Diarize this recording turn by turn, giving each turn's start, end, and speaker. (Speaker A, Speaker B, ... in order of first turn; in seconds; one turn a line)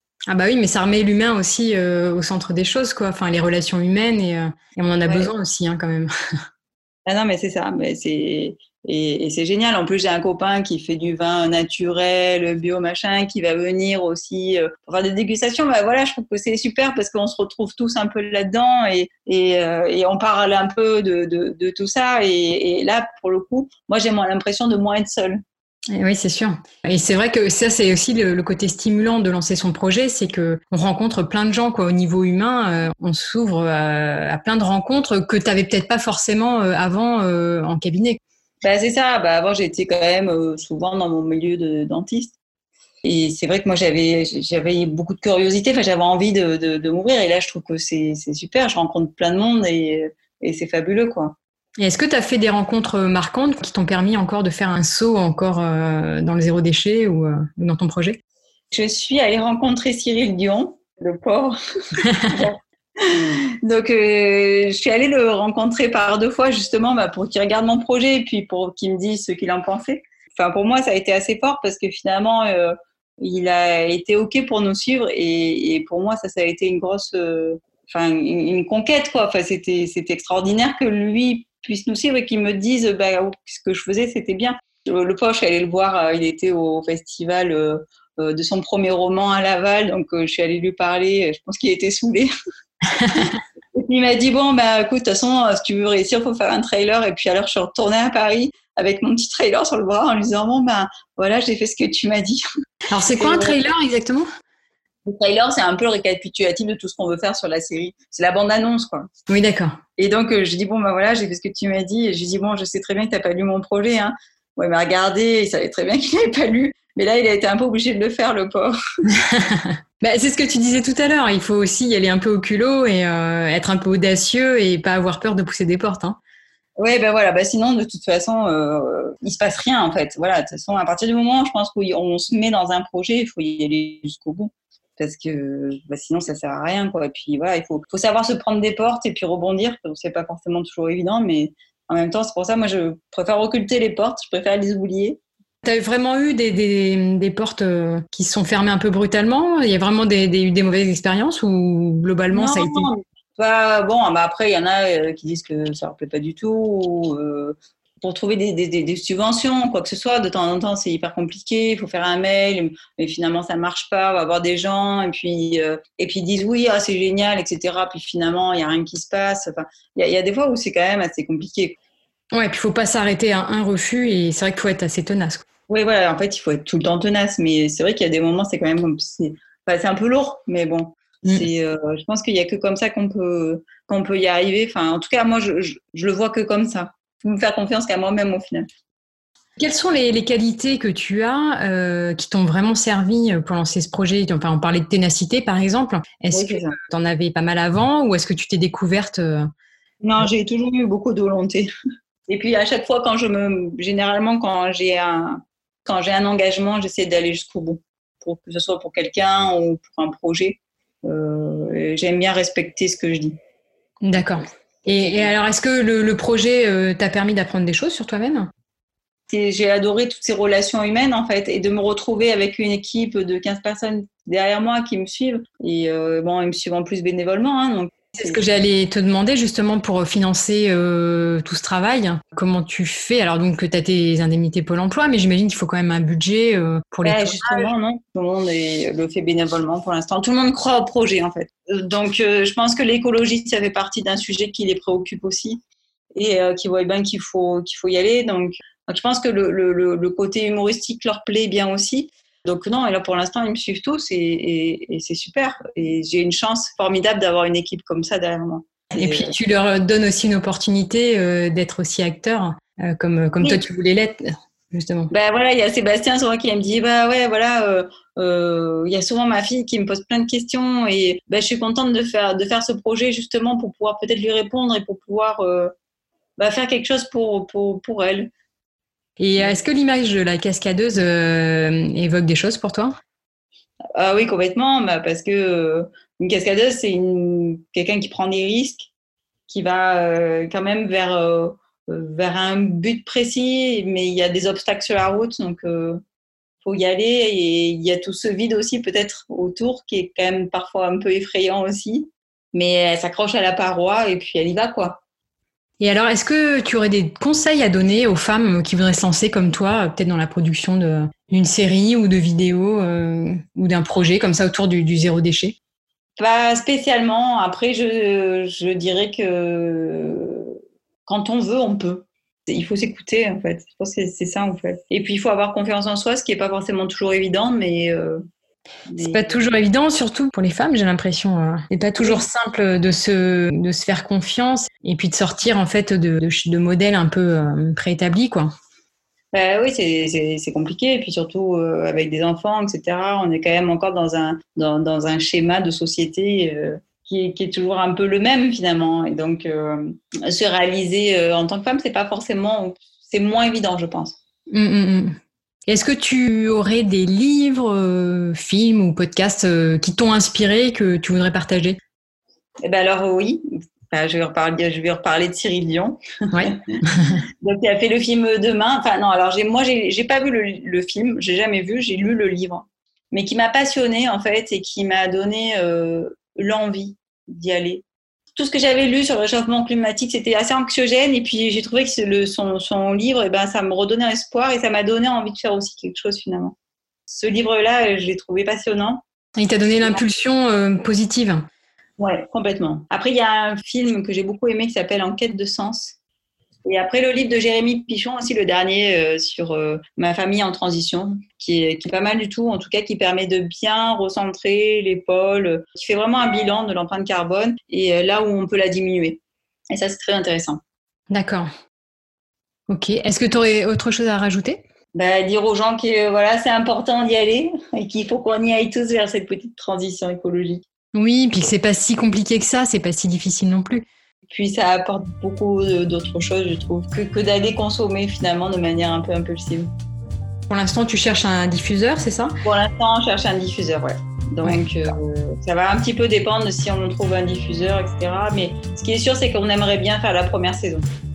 Speaker A: 0.3-6.1
Speaker B: 7.1-25.4
Speaker A: 25.9-38.2
Speaker B: 38.6-42.3
Speaker B: 43.0-51.3
Speaker A: 51.8-58.2
Speaker B: 58.7-92.3
Speaker A: 93.0-93.3
Speaker B: 93.1-102.4
Speaker A: 102.9-104.3
Speaker B: 103.1-103.6
Speaker B: 105.0-109.1
Speaker A: 109.3-109.8
Speaker B: 110.0-118.8
Speaker A: 119.2-126.2
Speaker B: 126.8-145.2
Speaker A: 145.6-152.9
Speaker B: 152.3-171.8
Speaker A: 172.3-175.4
Speaker B: 175.7-188.7
Speaker A: 189.6-199.5
Speaker B: 196.3-196.8
Speaker B: 200.0-201.7
Speaker B: 202.3-213.3
Speaker A: 214.0-218.5
Speaker B: 215.0-215.3
Speaker B: 219.3-228.5
Speaker A: 228.2-237.7
Speaker B: 237.0-245.6
Speaker B: 246.1-259.3
Speaker A: 258.9-265.1
Speaker B: 265.1-275.7
Speaker B: 276.4-278.3
Speaker A: 279.2-282.9
Speaker B: 283.9-288.9
Speaker B: 289.5-296.0
Speaker B: 296.6-305.0
Speaker A: 305.8-315.6
Speaker B: 316.2-328.2
Speaker B: 328.9-329.4
Speaker A: 329.0-338.5
Speaker B: 332.0-332.2
Speaker B: 339.3-354.2
Speaker A: 354.5-361.8
Speaker B: 362.6-366.8
Speaker A: 366.3-367.2
Speaker B: 367.4-377.8
Speaker B: 378.4-386.5
Speaker B: 387.1-389.0
Speaker A: 389.4-391.4
Speaker B: 392.0-395.9
Speaker B: 396.6-409.2
Speaker B: 409.7-410.6
Speaker A: 411.1-411.5
Speaker A: 412.7-414.6
Speaker B: 414.9-420.6
Speaker A: 420.9-423.8
Speaker B: 424.3-429.7
Speaker A: 430.5-432.4
Speaker B: 432.4-440.9